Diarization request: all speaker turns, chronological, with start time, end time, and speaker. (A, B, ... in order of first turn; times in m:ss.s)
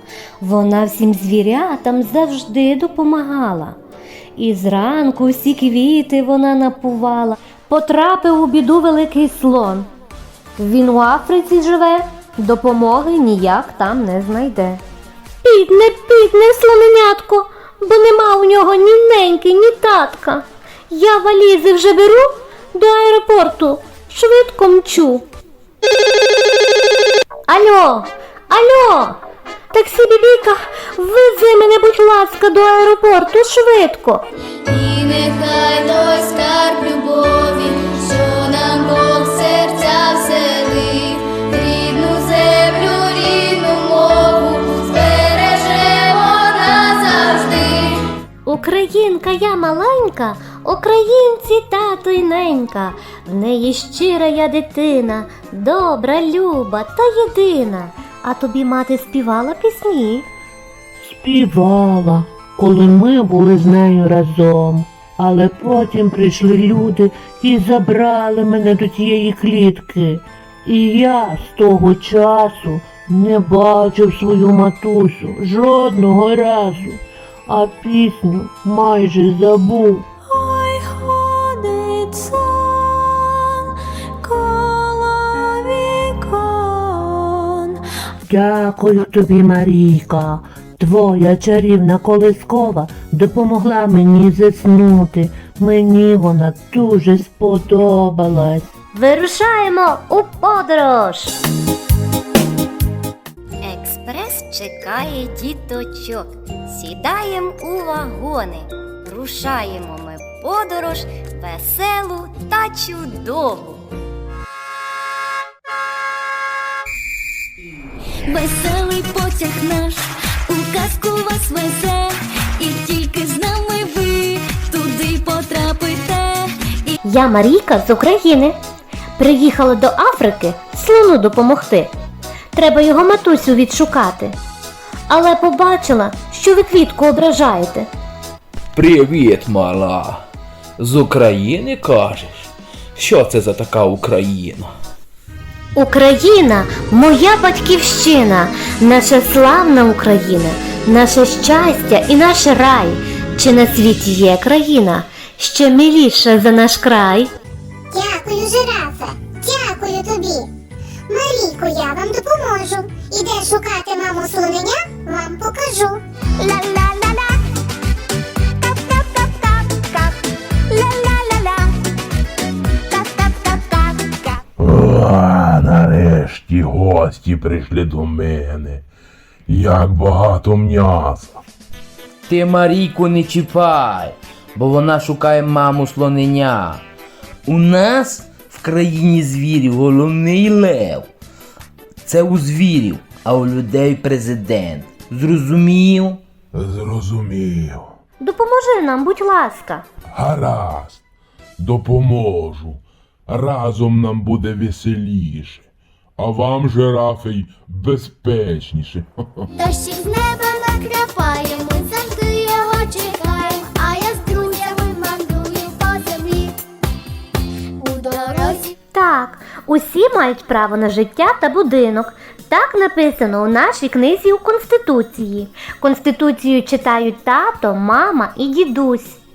0:00.4-0:03.8 A
0:04.4-0:09.9 A
0:10.6-0:14.8 A
0:15.4-0:25.2 A
0:27.5-0:29.2 A
0:29.7-0:34.2 A
0:34.6-0:48.0 B
0:48.4-1:00.3 A
1:01.0-1:20.1 C
1:20.4-1:23.7 B
1:24.2-1:27.8 B
1:28.3-1:38.7 C
1:38.9-1:41.3 A
1:43.6-1:53.8 D
1:58.3-2:07.0 B
2:07.0-2:08.6 A
2:09.2-2:11.9 A
2:12.5-2:14.3 A
2:15.1-2:17.9 A
2:18.7-2:20.2 E
2:20.8-2:24.7 E
2:25.7-2:37.3 A
2:37.9-2:40.5 F
2:41.1-2:47.0 F
2:50.7-2:51.2 F
2:53.4-2:53.7 F
2:54.6-2:58.8 G
2:59.5-3:01.4 G
3:02.3-3:06.8 E
3:07.4-3:11.1 E
3:12.0-3:16.2 E
3:16.5-3:17.9 G
3:18.2-3:19.8 A
3:20.1-3:21.0 G
3:21.6-3:25.6 G
3:26.2-3:29.4 G
3:29.6-3:36.6 B
3:37.8-3:38.7 B
3:38.9-3:49.2 A